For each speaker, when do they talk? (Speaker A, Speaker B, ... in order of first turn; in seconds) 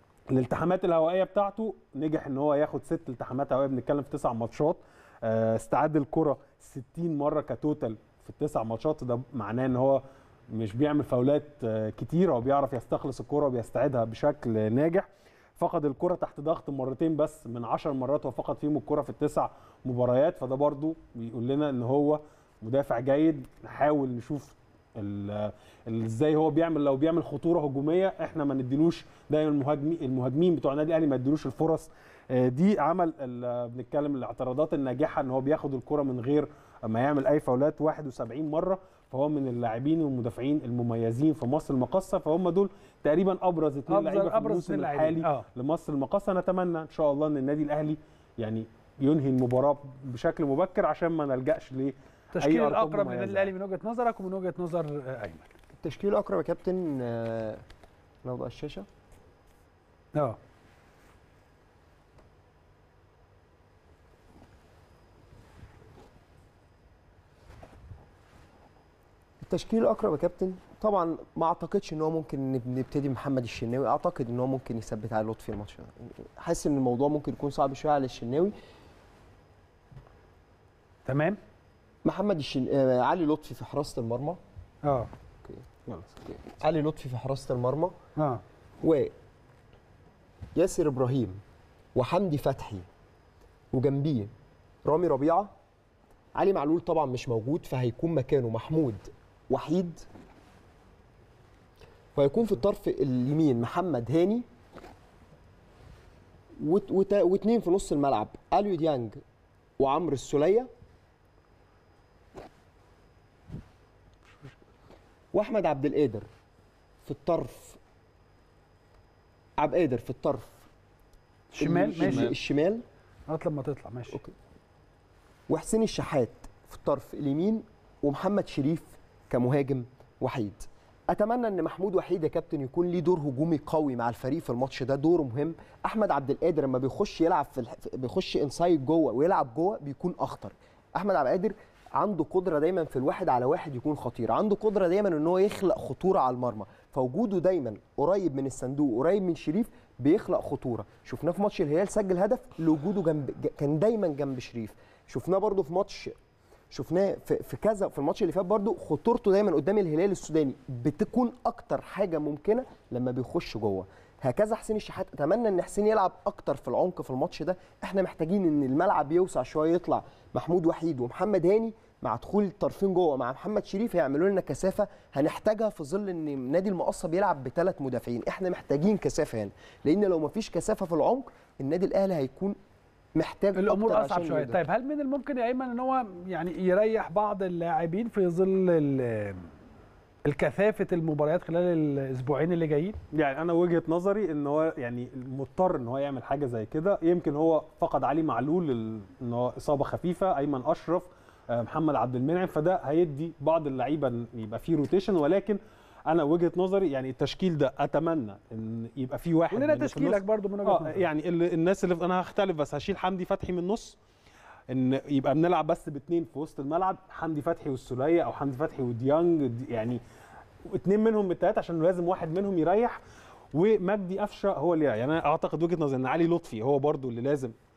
Speaker A: 0.3-53.5, 85.8-86.4, 122.0-122.3, 193.1-214.0, 214.7-220.0, 220.7-223.0, 223.5-227.5
Speaker B: 43.9-45.5, 52.3-55.5, 81.0-81.4, 88.2-88.4, 121.5-122.3, 123.3-124.2, 183.5-189.5, 190.2-193.0, 209.5-211.1
Speaker C: 55.8-57.6, 58.2-58.9, 69.4-78.5, 82.0-84.4, 86.5-87.9, 88.8-89.1, 90.5-91.4, 91.9-92.8, 93.7-94.3, 94.8-95.5, 96.3-100.0, 102.1-104.4, 106.6-109.2, 109.8-110.7, 115.3-116.2, 117.0-117.8, 119.6-120.7, 121.5-122.8, 125.5-156.1, 156.7-182.6, 183.1-184.6